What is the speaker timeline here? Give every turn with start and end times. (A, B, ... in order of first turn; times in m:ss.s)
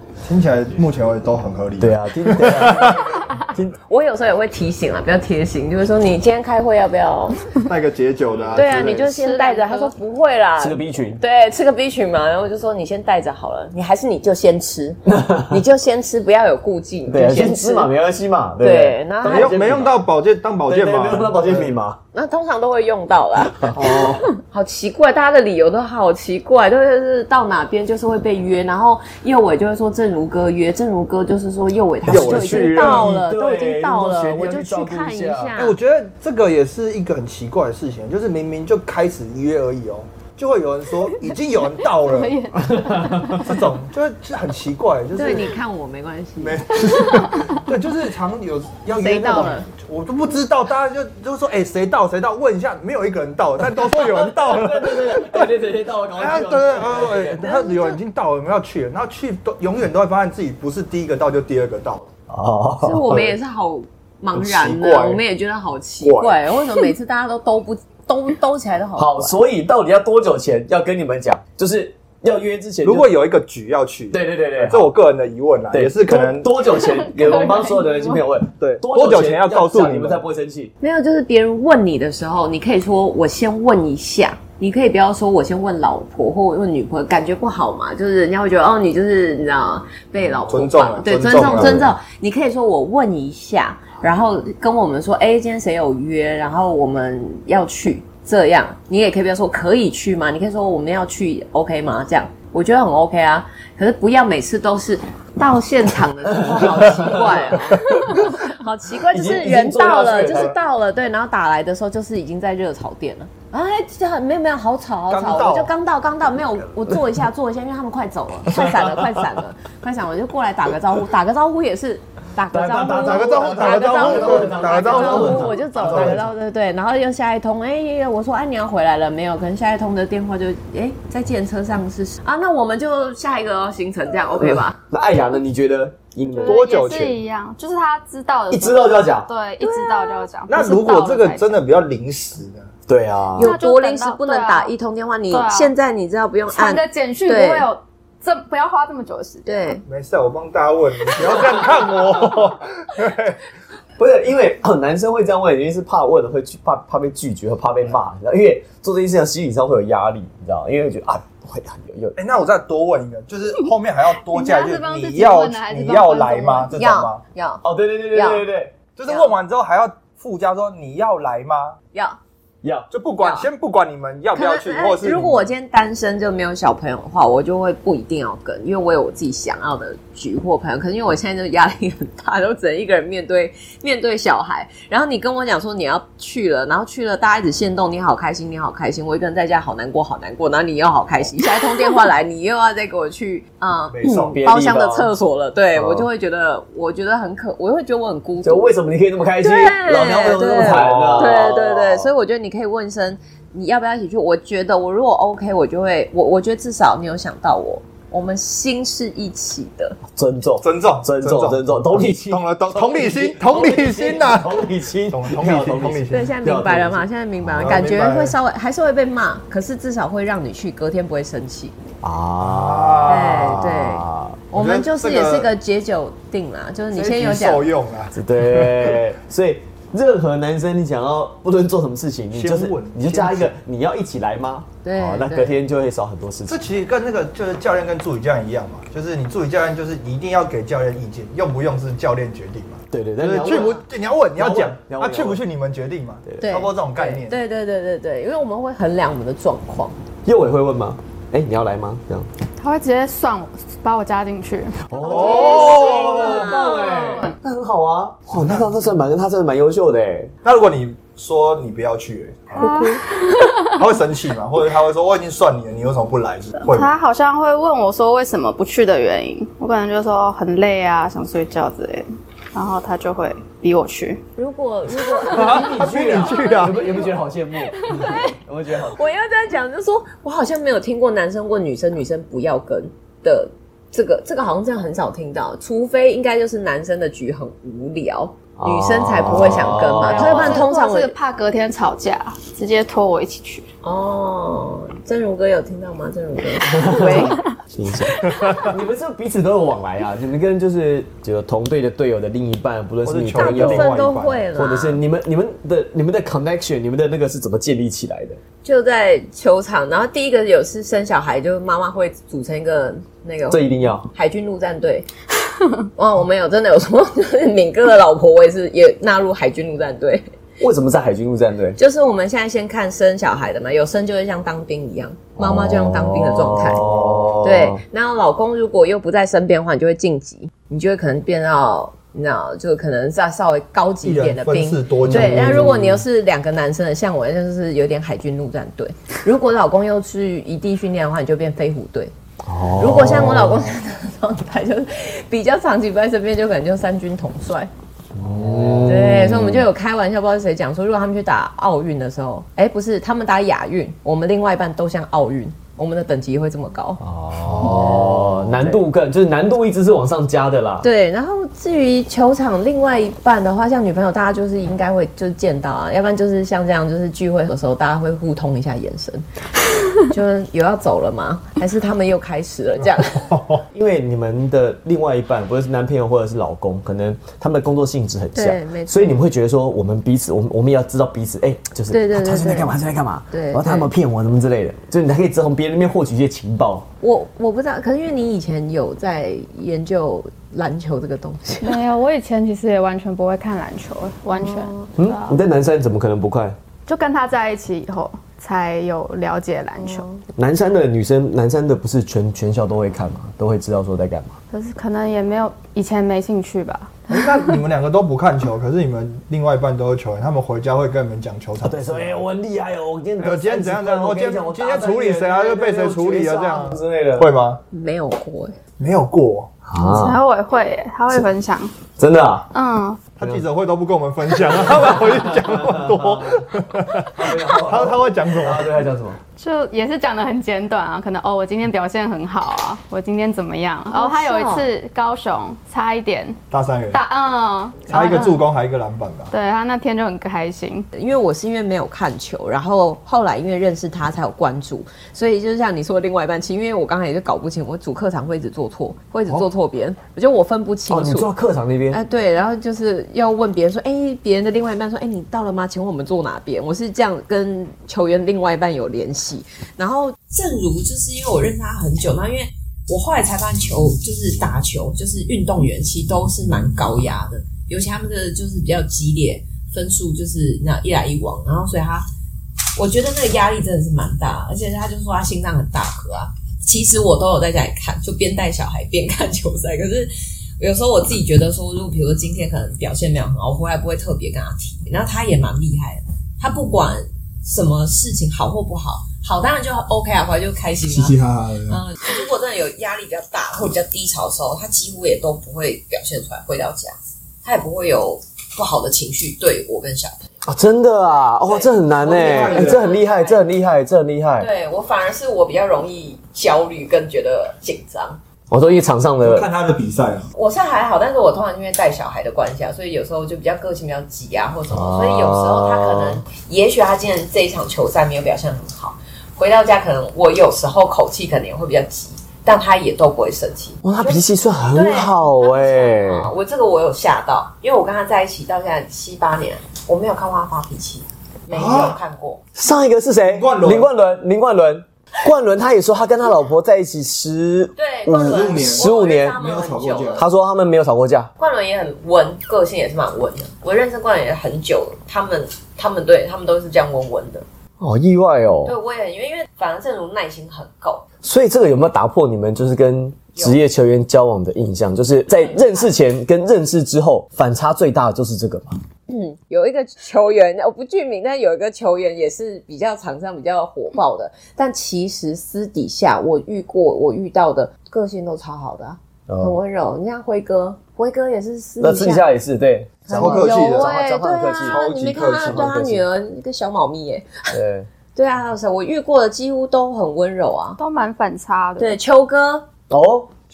0:00.2-0:03.0 A
0:01.8-0:03.8 B
0:03.8-0:07.4 C
0:07.6-0:09.2 A
0:08.3-0:08.9 B
0:08.5-0:17.9 C
0:09.0-0:09.9 D
0:10.6-0:11.2 B
0:15.0-0:15.6 B
0:17.1-0:20.0 B
0:18.6-0:19.7 C
0:19.2-0:21.7 A
0:20.7-0:22.0 B
0:22.1-0:35.8 C
0:23.6-0:24.2 B
0:23.8-0:24.2 A
0:32.0-0:35.5 B
0:32.0-0:33.1 A
0:35.6-0:42.5 A
0:41.9-0:43.5 D
0:42.6-0:43.4 B
0:43.4-0:45.6 A
0:45.1-0:46.7 C
0:46.4-0:55.6 A
0:47.0-0:47.5 D
0:48.9-0:49.7 C
0:53.7-0:57.4 B
0:56.2-1:02.1 A
0:57.4-0:57.9 C
1:02.3-1:03.3 B
1:02.8-1:09.4 C
1:04.3-1:05.2 A
1:06.0-1:06.4 A
1:09.0-1:13.1 B
1:12.8-1:16.6 A
1:14.1-1:14.9 B
1:15.7-1:20.7 B
1:16.6-1:18.2 D
1:18.6-1:20.2 A
1:20.8-2:14.8 C
1:30.5-1:31.9 A
1:31.3-1:31.9 B
1:46.3-1:48.3 B
1:49.1-1:50.5 B
1:50.3-1:50.5 A
1:55.1-1:55.7 A
1:58.5-1:59.2 B
2:02.5-2:06.2 B
2:02.8-2:06.3 A
2:14.4-2:17.0 B
2:16.3-2:21.4 D
2:16.4-2:17.2 A
2:18.5-2:19.3 B
2:19.6-2:20.3 C
2:20.5-2:22.7 A
2:22.9-2:23.6 B
2:23.4-2:27.7 C
2:23.4-2:24.7 D
2:25.3-2:25.7 D
2:26.5-2:29.8 D
2:29.4-2:29.8 C
2:29.8-2:33.4 A
2:34.0-2:42.2 B
2:42.2-2:47.2 A
2:44.2-2:46.7 D
2:46.7-2:48.4 C
2:47.6-2:48.7 B
2:49.0-2:51.8 A
2:49.1-2:49.3 C
2:52.6-2:52.9 B
2:52.9-2:55.5 A
2:53.2-2:53.5 C
2:54.3-3:18.7 C
3:13.9-3:14.4 A
3:14.1-3:15.1 B
3:15.7-3:16.1 B
3:18.4-3:22.1 B
3:19.4-3:30.0 C
3:20.5-3:21.5 A
3:30.1-3:37.0 B
3:30.6-3:36.3 A
3:36.1-3:41.8 C
3:37.5-3:38.4 A
3:42.0-3:44.4 B
3:42.4-3:43.5 A
3:43.1-3:47.6 C
3:44.5-3:45.5 A
3:46.9-3:49.0 A
3:48.1-3:56.6 B
3:52.3-3:53.5 A
3:54.8-3:55.6 C
3:56.5-4:07.4 A
4:02.9-4:03.8 B
4:04.4-4:05.4 B
4:06.4-4:10.0 C
4:10.2-4:12.3 B
4:12.6-4:16.7 D
4:14.9-4:20.3 B
4:15.0-4:16.9 A
4:15.2-4:17.3 C
4:18.3-4:18.8 A
4:20.4-4:23.0 A
4:22.6-4:23.7 D
4:23.6-4:26.9 A
4:26.6-4:34.2 D
4:34.4-4:37.1 C
4:35.3-4:36.9 A
4:35.3-4:39.0 B
4:37.8-4:38.3 D
4:37.9-4:38.3 C
4:38.8-4:51.1 C
4:48.6-4:50.7 B
4:50.0-4:53.6 D
4:53.8-4:57.4 C
4:56.6-5:03.9 B
4:58.2-4:58.7 A
5:03.0-5:04.4 A
5:03.3-5:05.0 C
5:04.5-5:08.4 B
5:08.6-5:13.6 C
5:13.5-5:14.1 B
5:14.1-5:15.1 C
5:16.0-5:20.3 C
5:20.6-5:21.8 B
5:21.8-5:26.8 C
5:25.4-5:27.8 B
5:26.9-5:27.2 A
5:27.4-5:42.1 C
5:34.0-5:35.8 A
5:35.0-5:36.0 B
5:42.4-5:43.7 B
5:42.8-5:47.7 C
5:48.1-5:49.6 B
5:48.8-5:58.8 C
5:57.0-6:00.9 B
6:00.8-6:09.2 C
6:10.0-6:13.3 C
6:13.2-6:13.6 A
6:13.7-6:26.9 B
6:18.3-6:19.2 C
6:21.9-6:22.7 C
6:23.3-6:23.9 C
6:27.0-6:31.8 C
6:31.6-6:35.4 D
6:34.3-6:34.9 C
6:35.0-6:36.6 B
6:36.8-6:40.0 D
6:39.8-6:40.2 C
6:40.3-6:44.4 B
6:44.5-6:47.6 D
6:47.1-6:52.2 A
6:51.6-6:57.3 B
6:53.2-6:57.6 A
6:57.7-6:58.6 C
6:58.8-6:59.5 A
6:59.6-7:00.2 B
6:59.8-7:01.7 D
7:02.0-7:02.5 B
7:02.5-7:03.0 D
7:03.2-7:08.7 A
7:04.4-7:09.2 B
7:09.4-7:16.4 D
7:13.9-7:14.7 C
7:16.5-7:17.0 A
7:16.9-7:18.4 D
7:17.9-7:19.3 A
7:19.3-7:20.9 D
7:20.9-7:31.3 C
7:30.9-7:32.0 B
7:31.9-7:52.0 C
7:52.8-8:11.2 C
8:10.9-8:11.8 A
8:11.7-8:20.2 C
8:20.4-8:24.5 B
8:21.4-8:23.4 C
8:22.0-8:22.9 A
8:24.4-8:28.2 C
8:28.5-8:29.5 B
8:29.2-8:30.3 A
8:30.3-8:52.4 C
8:34.7-8:36.2 B
8:43.8-8:46.3 B
8:51.5-8:52.0 A
8:52.5-8:59.4 B
8:53.2-8:53.9 A
8:57.8-9:00.2 C
8:58.2-9:00.2 A
9:00.2-9:01.3 B
9:01.4-9:07.4 C
9:07.8-9:08.7 B
9:08.6-9:11.0 C
9:11.2-9:18.8 B
9:15.3-9:15.9 C
9:19.1-9:32.2 C
9:29.3-9:29.6 B
9:31.8-9:36.0 B
9:33.0-9:37.5 C
9:33.1-9:33.9 A
9:34.6-9:35.7 A
9:37.5-9:37.9 B
9:38.2-9:40.8 C
9:40.8-9:42.0 D
9:41.8-9:42.7 C
9:42.9-9:43.3 B